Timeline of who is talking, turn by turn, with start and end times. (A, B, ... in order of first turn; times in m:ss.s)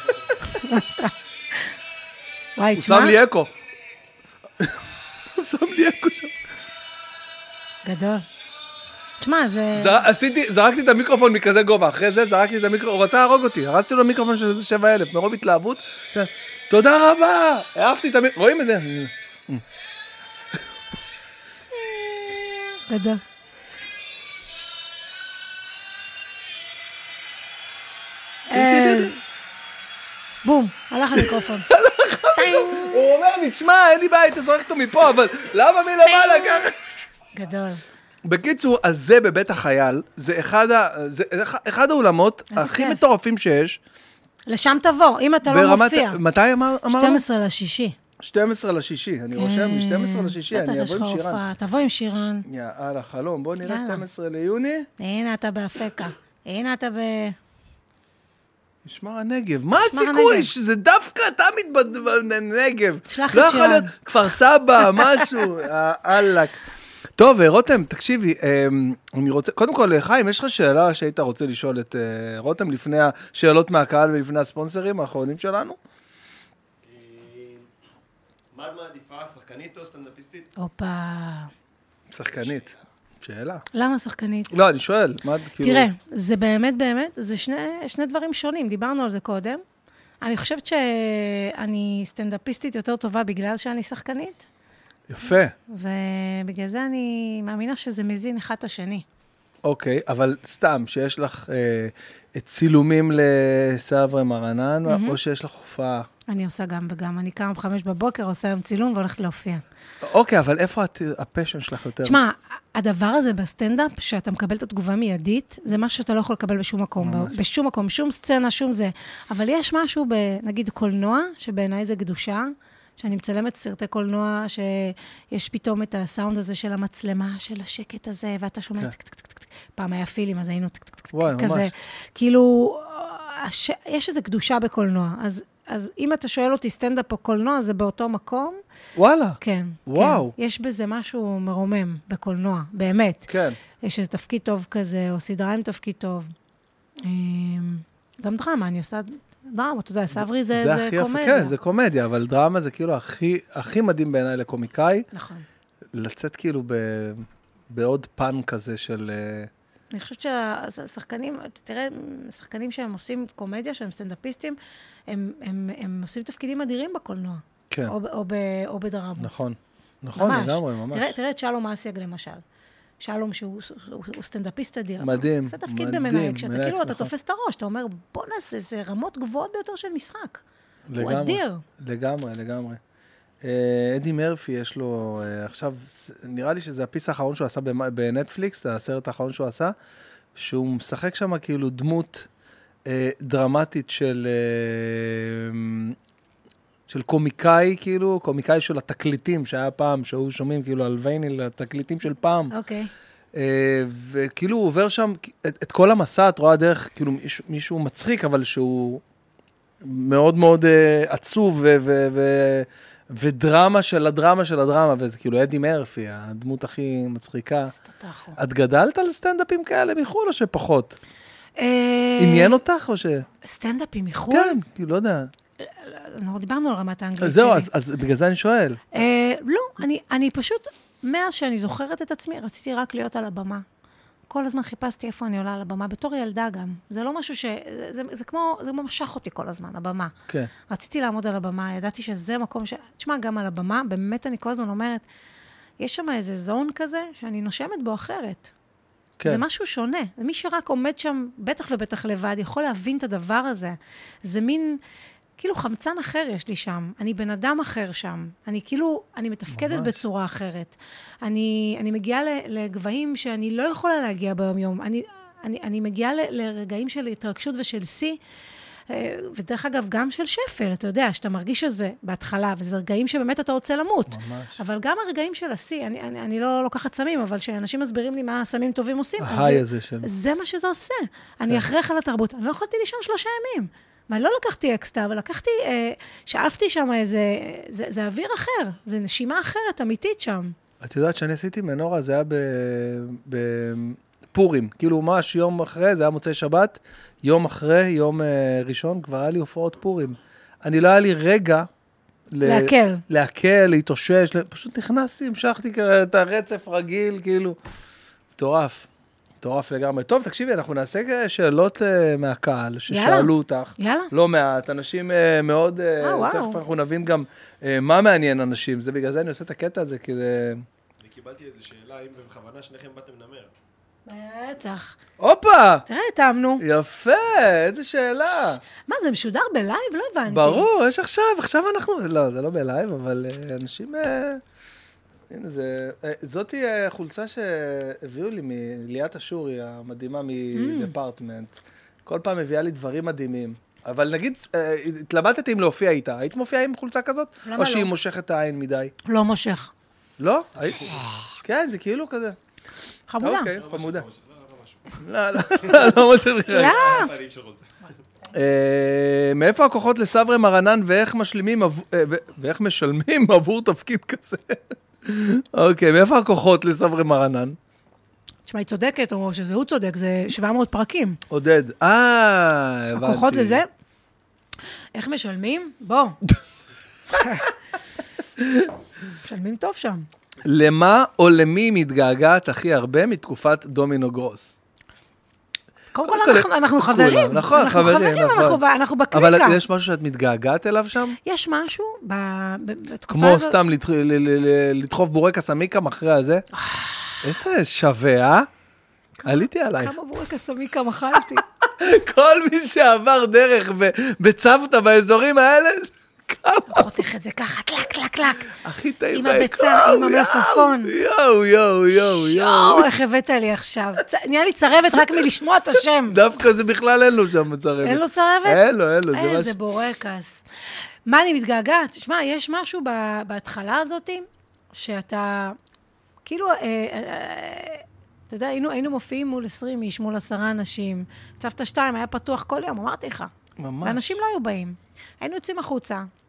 0:00.4-0:01.7 A
0:02.6-0:03.2 A
0:02.8-0:03.5 B
0:05.3-0:06.4 B
0:07.8-0:08.2 A
0:09.2-0:10.0 A
0:09.8-0:19.6 B
0:21.7-0:23.2 A
0:28.5-0:29.2 A
0:28.5-0:29.1 B
0:30.4-0:31.7 A
0:31.2-0:36.8 B
0:32.4-0:33.1 A
0:36.1-0:36.7 A
0:37.3-0:37.8 A
0:38.2-0:43.8 B
0:42.5-0:43.0 A
0:44.5-0:46.2 A
0:45.5-0:47.2 B
0:46.9-0:48.0 A
0:48.2-0:51.4 B
0:49.3-0:52.5 A
0:52.5-0:54.9 B
0:53.6-0:54.0 A
0:55.0-0:57.4 A
0:58.8-1:06.6 B
0:59.9-1:00.5 A
1:03.1-1:03.9 A
1:04.8-1:05.2 A
1:07.2-1:15.8 B
1:16.8-1:17.7 C
1:18.5-1:20.5 C
1:20.6-1:21.5 A
1:22.1-1:23.6 B
1:23.7-1:24.6 A
1:24.5-1:25.9 B
1:25.6-1:29.6 A
1:30.2-1:34.5 A
1:35.1-1:35.5 B
1:35.7-1:39.0 A
1:39.6-1:46.1 B
1:44.9-1:45.2 A
1:46.3-1:49.6 A
1:50.0-1:52.2 B
1:52.0-2:18.6 A
1:57.0-1:57.4 B
2:11.1-2:11.7 B
2:18.9-2:20.3 B
2:19.4-2:26.3 A
2:23.3-2:23.6 B
2:27.0-2:31.6 A
2:30.1-2:35.1 B
2:35.1-2:35.5 A
2:35.9-2:39.5 B
2:39.9-2:44.6 A
2:45.1-2:49.4 A
2:49.2-2:51.2 B
2:50.2-2:52.4 A
2:53.0-3:00.4 A
2:55.0-2:57.1 B
3:00.9-3:02.8 B
3:01.0-3:01.6 A
3:03.4-3:09.7 B
3:10.4-3:12.3 B
3:12.9-3:16.0 B
3:16.9-3:22.5 B
3:22.5-3:22.9 A
3:23.4-3:29.0 B
3:29.8-3:37.7 B
3:37.7-3:38.4 A
3:38.4-3:41.0 B
3:41.6-3:42.6 A
3:42.2-3:43.3 B
3:43.4-3:44.6 A
3:44.3-3:45.3 B
3:45.6-3:47.7 A
3:47.2-3:48.8 B
3:48.9-3:53.6 A
3:54.3-4:00.1 A
4:00.7-4:05.1 A
4:05.8-4:08.5 A
4:09.2-4:09.4 B
4:09.2-4:14.8 A
4:15.4-4:28.2 A
4:19.5-4:20.0 B
4:28.9-4:50.6 A
4:34.1-4:34.6 B
4:39.2-4:40.1 B
4:50.8-5:01.7 B
5:02.3-5:07.6 B
5:02.4-5:03.0 A
5:08.4-5:08.9 B
5:09.4-5:20.6 B
5:12.9-5:14.1 A
5:16.0-5:16.6 A
5:21.0-5:23.5 C
5:24.1-5:25.0 A
5:25.2-5:25.9 B
5:25.9-5:26.6 A
5:26.6-5:28.6 B
5:28.8-5:30.7 A
5:30.3-5:34.4 B
5:35.3-5:41.6 B
5:40.5-5:40.9 A
5:42.1-5:48.9 B
5:47.4-5:47.9 A
5:49.0-5:49.7 A
5:50.2-5:52.4 B
5:53.1-5:53.5 A
5:53.2-5:54.1 B
5:53.5-5:57.9 C
5:55.0-5:56.9 B
5:56.5-5:57.1 A
5:58.3-6:07.6 B
6:08.5-6:11.2 A
6:11.3-6:13.6 B
6:13.0-6:13.7 A
6:15.0-6:16.2 A
6:17.2-6:17.5 A
6:18.4-6:18.7 B
6:19.2-6:20.1 A
6:20.4-6:24.6 B
6:25.9-6:29.6 A
6:26.0-6:28.6 B
6:29.1-6:31.2 B
6:31.2-6:33.6 A
6:33.1-6:36.4 B
6:36.6-6:37.2 A
6:37.2-6:38.5 B
6:39.2-6:41.4 A
6:39.2-6:40.0 B
6:41.1-6:47.0 B
6:46.7-6:48.6 A
6:48.5-6:52.9 B
6:49.1-6:51.0 A
6:51.9-6:56.2 A
6:54.9-6:55.3 B
6:56.1-6:59.6 B
6:57.8-7:00.4 A
7:01.1-7:05.6 A
7:06.2-7:16.1 A
7:13.6-7:14.0 B